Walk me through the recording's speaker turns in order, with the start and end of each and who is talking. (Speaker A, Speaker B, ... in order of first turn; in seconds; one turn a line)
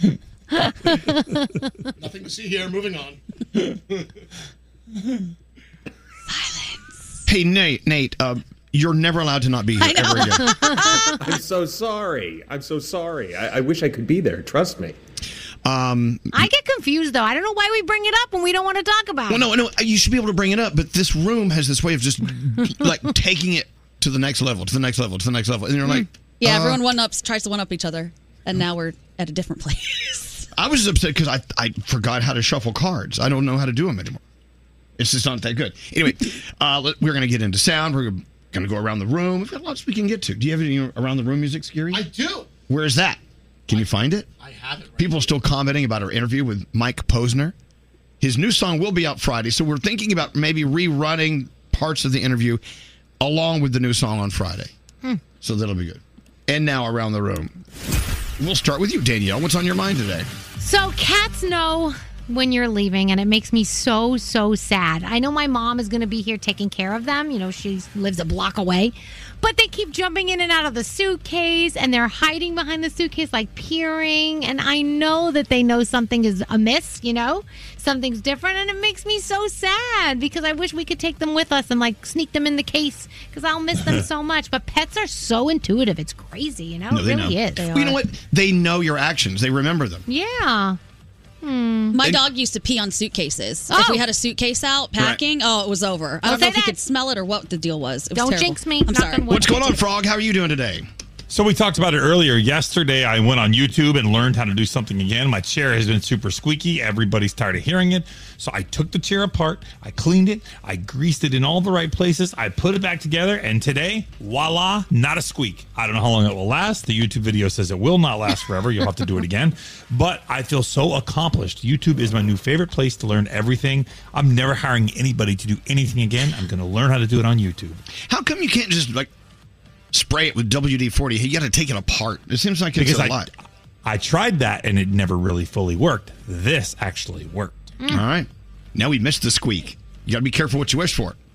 Speaker A: 0.6-1.4
Speaker B: 2.0-3.2
Speaker C: 7.3-10.6
Speaker D: 9.8-11.2
Speaker E: 11.2-15.0
Speaker C: 15.6-16.5
Speaker A: 16.3-19.5
Speaker C: 19.3-26.8
Speaker D: 26.4-30.5
Speaker C: 30.6-34.2
Speaker C: 35.0-42.1
Speaker B: 41.9-42.5
Speaker C: 42.7-44.3
Speaker B: 43.7-45.4
Speaker C: 45.0-47.5
Speaker C: 48.2-52.6
Speaker C: 53.2-54.7
Speaker C: 55.4-57.5
Speaker C: 58.4-60.3
Speaker A: 60.6-87.7
Speaker C: 86.9-90.0
Speaker D: 87.6-88.0
Speaker A: 90.1-90.8
Speaker A: 91.4-92.0
Speaker D: 91.9-99.6
Speaker A: 93.7-94.0
Speaker A: 96.2-96.8
Speaker A: 98.2-99.8
Speaker C: 99.3-100.9
Speaker F: 101.3-127.8
Speaker C: 128.0-129.1
Speaker C: 129.9-133.3
Speaker F: 132.8-133.3
Speaker F: 133.8-137.7
Speaker C: 137.9-141.2